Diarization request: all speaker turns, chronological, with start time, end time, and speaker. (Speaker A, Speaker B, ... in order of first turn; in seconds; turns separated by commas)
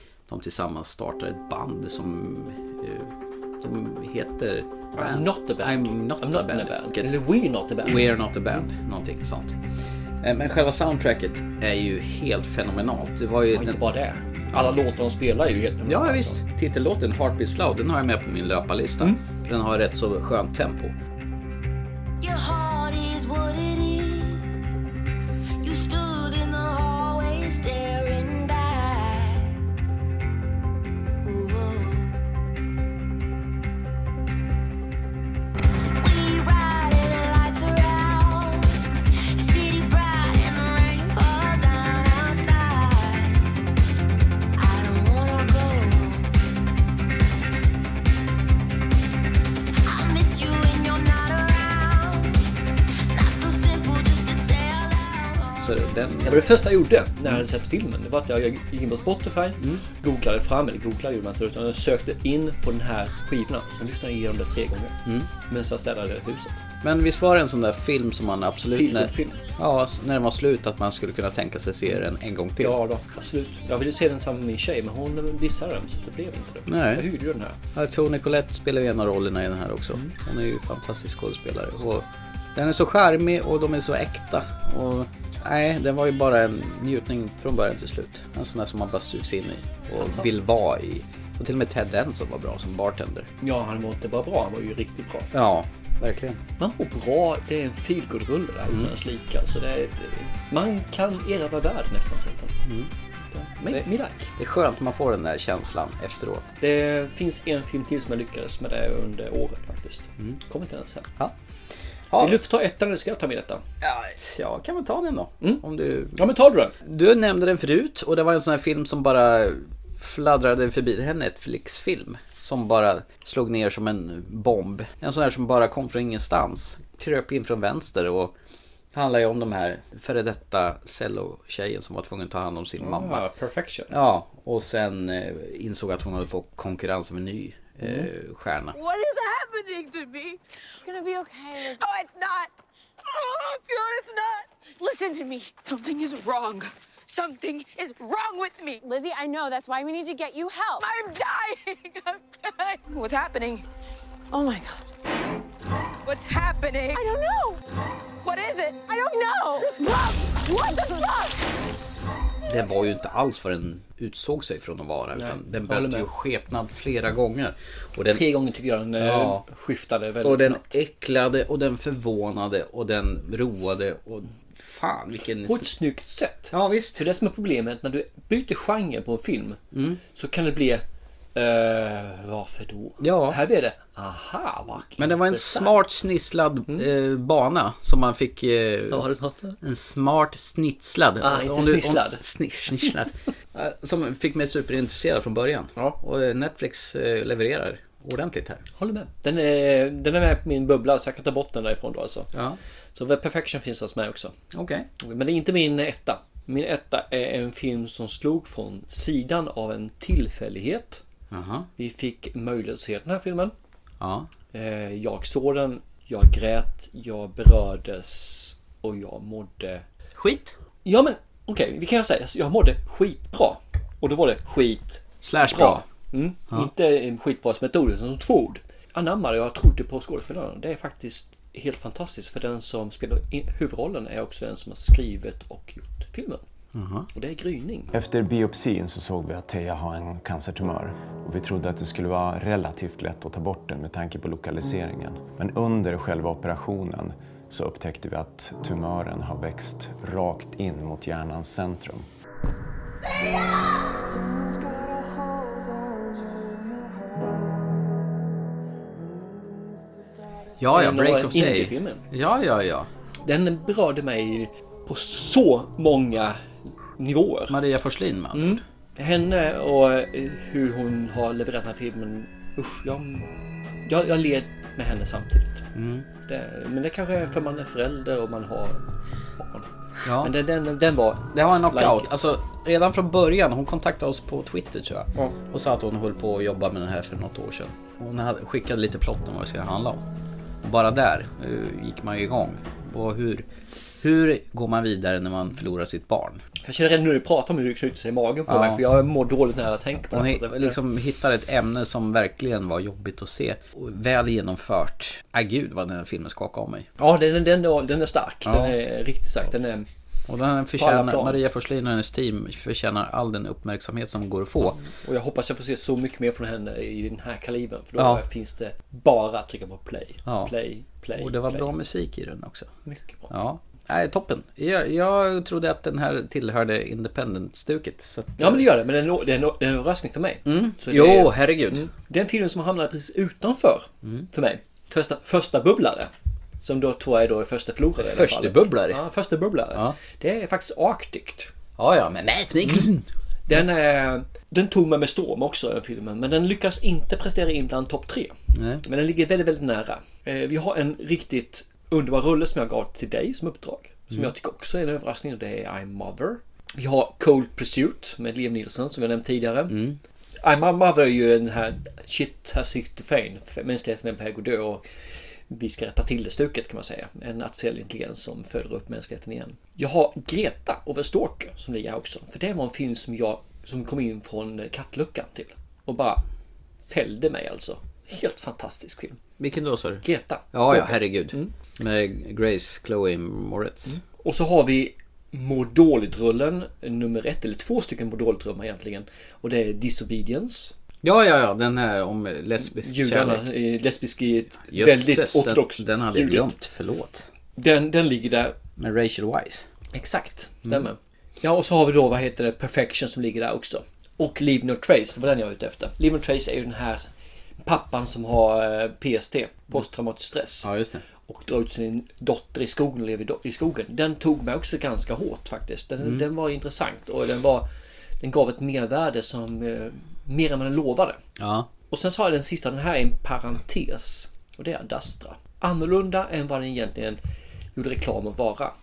Speaker A: 0.3-7.1, Speaker B: 5.0-8.1, Speaker A: 7.8-9.6, Speaker A: 10.2-13.8, Speaker B: 13.5-16.4, Speaker A: 15.9-20.9, Speaker C: 22.2-24.6, Speaker C: 25.6-29.6, Speaker C: 31.2-32.2, Speaker C: 36.0-38.8, Speaker C: 39.3-43.5, Speaker C: 44.6-46.3, Speaker C: 49.9-52.4, Speaker C: 53.1-55.6, Speaker A: 55.6-56.5, Speaker B: 56.2-66.6, Speaker A: 66.8-72.8, Speaker B: 68.7-69.4, Speaker B: 72.6-77.6, Speaker A: 76.7-77.1, Speaker A: 77.7-93.3, Speaker B: 90.0-90.6, Speaker B: 93.4-95.3, Speaker A: 95.3-96.4, Speaker B: 96.6-102.6, Speaker B: 103.3-104.3, Speaker A: 104.4-106.5, Speaker B: 106.6-111.1, Speaker A: 112.1-112.4, Speaker B: 112.2-113.6, Speaker A: 113.8-116.3, Speaker B: 116.2-116.7, Speaker A: 116.8-128.4, Speaker A: 128.9-133.3, Speaker B: 132.8-133.9, Speaker A: 133.9-138.8, Speaker B: 137.8-138.1, Speaker D: 138.7-142.5, Speaker D: 143.1-153.7, Speaker D: 154.3-154.9, Speaker D: 156.1-157.6, Speaker D: 158.2-161.4, Speaker A: 162.5-168.2, Speaker B: 165.2-166.1, Speaker B: 168.1-170.7, Speaker A: 169.0-169.4, Speaker A: 170.2-175.7, Speaker B: 175.5-179.6, Speaker A: 176.5-177.0, Speaker A: 179.7-180.0, Speaker B: 180.2-180.8, Speaker B: 181.3-185.8, Speaker A: 183.0-183.4, Speaker A: 185.0-189.1, Speaker B: 188.9-189.6, Speaker A: 189.6-198.6, Speaker B: 191.2-192.2, Speaker B: 198.8-202.3, Speaker A: 202.3-202.6, Speaker B: 202.9-204.4, Speaker A: 204.5-204.9, Speaker B: 205.0-211.0, Speaker A: 211.3-211.7, Speaker B: 211.8-213.5, Speaker A: 214.0-214.3, Speaker B: 214.5-219.8, Speaker A: 220.2-220.6, Speaker B: 220.8-236.4, Speaker A: 225.2-225.8, Speaker A: 236.7-237.1, Speaker B: 237.1-237.9, Speaker E: 237.9-252.1, Speaker A: 260.6-262.9, Speaker B: 260.7-262.0, Speaker B: 263.2-266.5, Speaker B: 267.0-267.6, Speaker A: 267.5-268.6, Speaker B: 268.3-273.3, Speaker B: 273.9-275.7, Speaker A: 275.8-276.1, Speaker B: 276.3-278.9, Speaker B: 279.4-279.7, Speaker A: 280.1-280.3, Speaker B: 280.2-282.1, Speaker A: 281.3-290.1, Speaker A: 290.6-293.5, Speaker A: 294.0-296.4, Speaker B: 296.6-300.8, Speaker A: 298.5-298.8, Speaker A: 300.1-306.9, Speaker B: 307.0-309.9, Speaker A: 308.5-308.8, Speaker A: 310.3-314.8, Speaker B: 310.8-311.4, Speaker B: 314.7-321.7, Speaker A: 318.0-318.2, Speaker A: 320.3-320.5, Speaker A: 321.2-322.7, Speaker B: 322.9-323.3, Speaker A: 323.3-328.7, Speaker B: 328.4-336.1, Speaker A: 330.4-331.9, Speaker A: 334.0-334.3, Speaker B: 336.6-341.5, Speaker A: 338.0-339.0, Speaker A: 341.8-343.1, Speaker B: 343.5-359.8, Speaker A: 348.5-348.8, Speaker A: 359.7-360.0, Speaker B: 360.4-364.8, Speaker B: 365.5-376.2, Speaker B: 376.9-379.2, Speaker A: 379.4-384.0, Speaker B: 380.0-381.5, Speaker B: 383.9-390.7, Speaker A: 391.0-393.4, Speaker B: 392.6-396.6, Speaker A: 394.7-397.3, Speaker B: 397.6-398.6, Speaker A: 398.8-399.7, Speaker B: 399.9-407.1, Speaker B: 407.6-410.7, Speaker A: 410.6-411.0, Speaker B: 411.3-417.7, Speaker B: 418.2-421.2, Speaker A: 421.4-421.7, Speaker B: 421.9-427.2, Speaker B: 427.8-428.7